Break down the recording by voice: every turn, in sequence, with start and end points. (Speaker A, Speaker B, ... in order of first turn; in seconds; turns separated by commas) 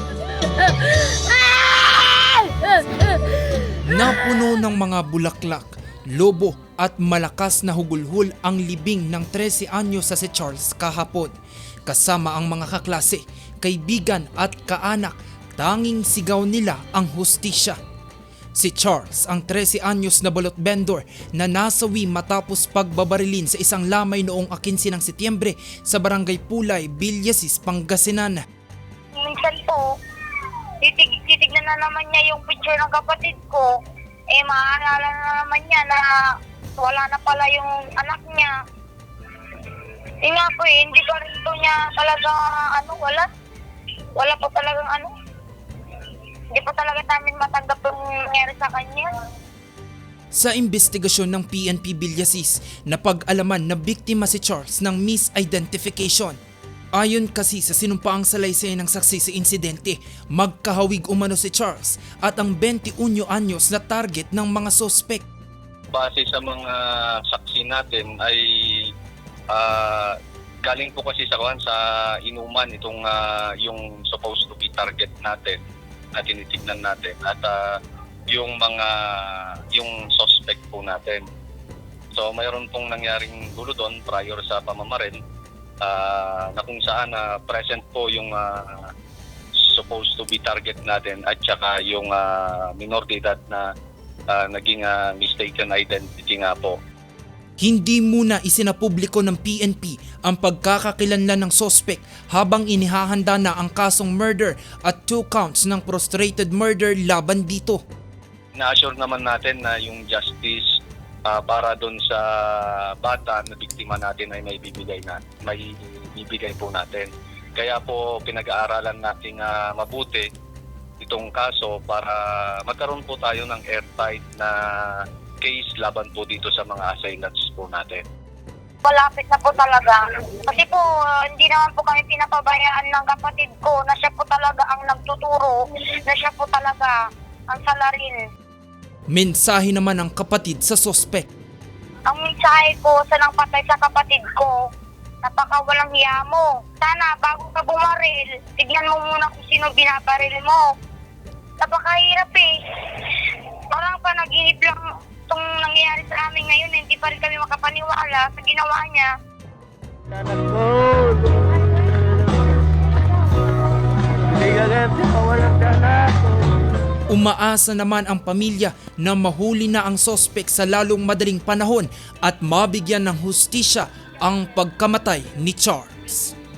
Speaker A: 0.3-3.6, Speaker B: 3.8-11.3, Speaker B: 11.9-17.8, Speaker B: 18.6-28.4, Speaker C: 29.1-29.9, Speaker C: 30.8-33.7, Speaker C: 34.3-36.1, Speaker C: 36.8-38.5, Speaker C: 40.2-43.3, Speaker C: 44.2-45.1, Speaker C: 46.5-49.1, Speaker B: 50.3-56.4, Speaker B: 57.0-65.2, Speaker D: 65.9-68.9, Speaker D: 69.5-75.6, Speaker D: 76.1-77.8, Speaker D: 78.3-81.3, Speaker D: 82.1-85.2, Speaker D: 85.8-88.9, Speaker D: 89.6-93.7, Speaker D: 94.3-96.8, Speaker B: 97.6-107.8, Speaker D: 108.5-110.6, Speaker D: 111.3-120.3, Speaker D: 121.0-128.0, Speaker C: 128.8-137.0, Speaker C: 137.5-138.2, Speaker B: 139.1-141.3, Speaker C: 142.1-144.6, Speaker C: 145.2-150.7, Speaker C: 151.6-152.5, Speaker C: 153.7-159.1, Speaker A: 160.4-161.1, Speaker A: 164.4-166.2, Speaker B: 167.1-176.3